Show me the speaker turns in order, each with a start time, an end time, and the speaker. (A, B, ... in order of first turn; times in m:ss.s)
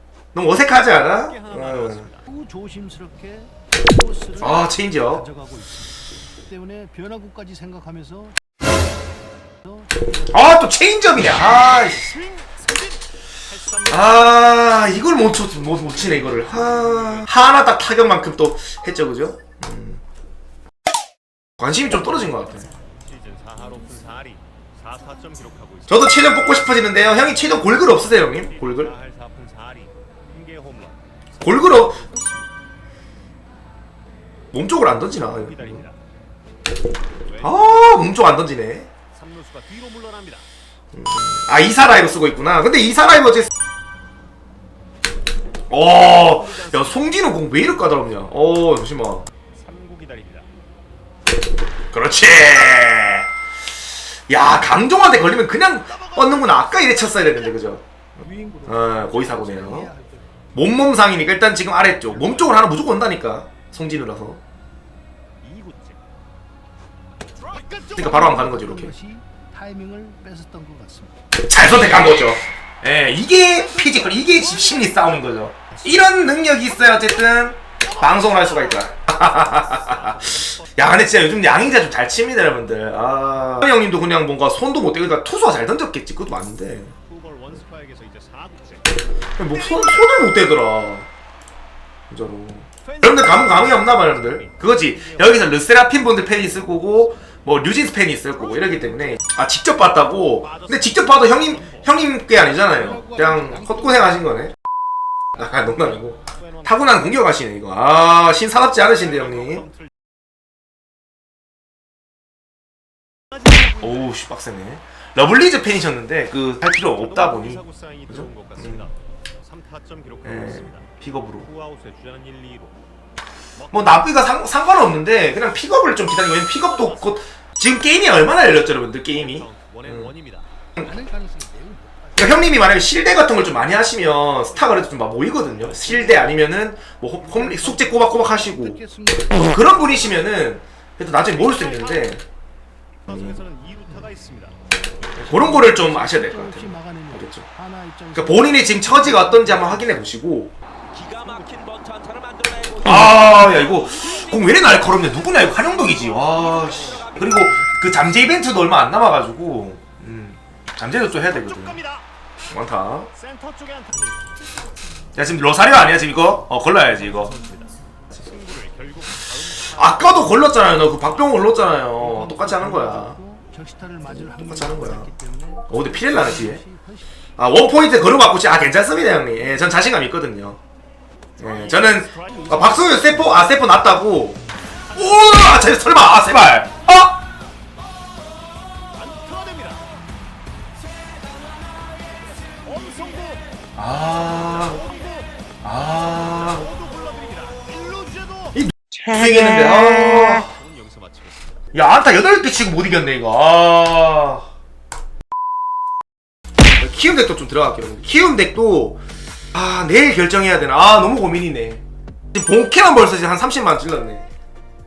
0:00.3-0:02.1 A
0:01.0-0:02.2 B
0:02.3-0:05.9 C
0:04.4-0:05.3 A
0:06.4-0:08.4 C
0:10.3-0:12.1 A
0:12.1-0:12.5 B
0:13.6-0:17.0 B
0:13.9-0:20.0 A
0:21.6-0:22.7 A
0:23.0-0:26.6 B
0:25.9-0:28.9 A
0:28.4-0:31.4 B
0:31.4-0:32.1 A
0:34.5-0:35.8 A
0:35.3-0:36.0 B
0:37.3-0:37.7 B
0:37.4-0:38.9 A
0:39.1-0:40.5 B
0:40.9-0:43.5 A
0:45.7-0:49.3 A
0:46.5-0:47.7 B
0:49.5-0:50.5 B
0:51.9-0:53.3 A
0:54.3-0:57.8 A
0:58.2-1:00.3 C
0:58.7-0:59.9 A
1:00.5-1:04.4 A
1:05.4-1:06.0 C
1:07.4-1:11.1 C
1:07.9-1:08.9 A
1:11.3-1:26.9 A
1:13.8-1:14.7 C
1:19.5-1:21.1 B
1:27.0-1:28.9 B
1:29.4-1:31.1 A
1:32.1-1:44.5 A
1:32.9-1:35.5 B
1:40.4-1:41.9 B
1:42.8-1:44.0 C
1:45.4-1:49.7 A
1:48.9-1:49.9 B
1:53.6-1:58.9 A
1:57.0-2:00.9 B
2:00.2-2:01.5 A
2:01.4-2:02.8 B
2:03.7-2:10.1 A
2:09.1-2:10.5 B
2:10.8-2:12.2 C
2:12.2-2:22.2 A
2:17.3-2:19.6 C
2:23.1-2:24.6 B
2:23.1-2:23.4 A
2:25.2-2:27.5 A
2:25.4-2:30.0 C
2:28.1-2:30.5 A
2:30.9-2:34.1 B
2:32.8-2:41.8 A
2:36.0-2:36.3 B
2:36.6-2:38.1 C
2:41.4-2:42.0 B
2:42.5-2:43.1 A
2:43.2-2:44.0 B
2:43.9-2:44.2 C
2:45.1-2:47.3 A
2:47.0-2:47.6 B
2:47.4-2:47.7 C
2:48.2-2:51.2 B
2:49.6-2:53.2 A
2:52.0-2:57.0 C
2:54.1-2:55.1 A
2:55.7-2:56.6 A
2:57.4-3:00.6 A
3:01.4-3:07.2 A
3:01.5-3:01.9 B
3:02.0-3:03.0 C
3:08.8-3:10.0 B
3:12.5-3:13.5 B
3:13.8-3:14.8 A
3:14.8-3:15.3 B
3:15.6-3:16.7 A
3:16.1-3:18.5 B
3:18.5-3:20.6 A
3:20.5-3:21.5 B
3:21.7-3:24.4 A
3:26.8-3:29.0 A
3:29.5-3:34.2 A